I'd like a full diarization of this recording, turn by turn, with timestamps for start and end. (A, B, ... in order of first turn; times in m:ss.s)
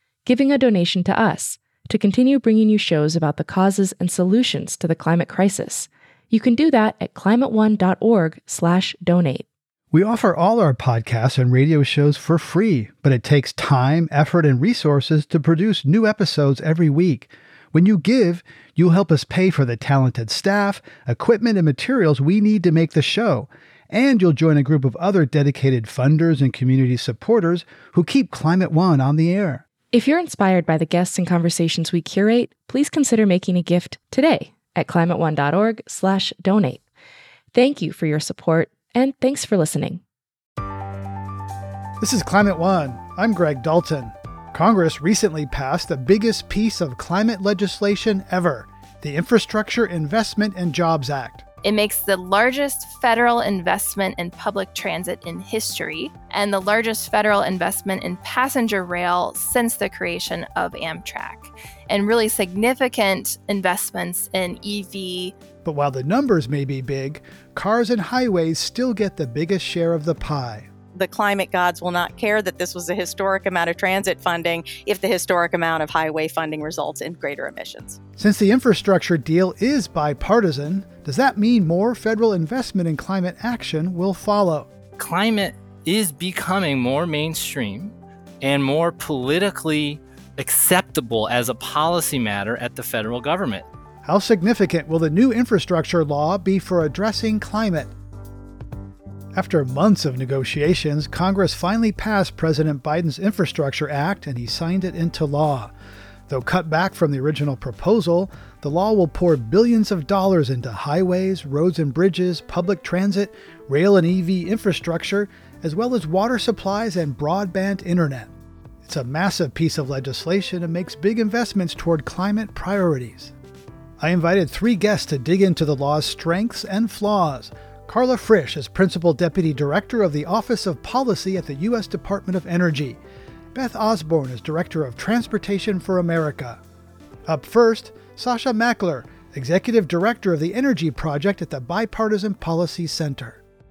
0:00.2-0:09.4 A
0:09.9-0:29.6 B
0:29.9-0:36.8 A
0:37.5-0:40.0 A
0:42.0-0:51.4 B
0:51.6-1:05.3 C
1:05.6-1:10.7 B
1:10.9-1:18.0 D
1:18.2-1:24.7 B
1:25.0-1:33.6 E
1:34.0-1:37.9 B
1:39.3-1:45.7 B
1:46.3-1:58.3 B
1:58.8-2:03.3 B
2:04.0-2:13.0 B
2:13.5-2:16.6 B
2:17.2-2:23.4 B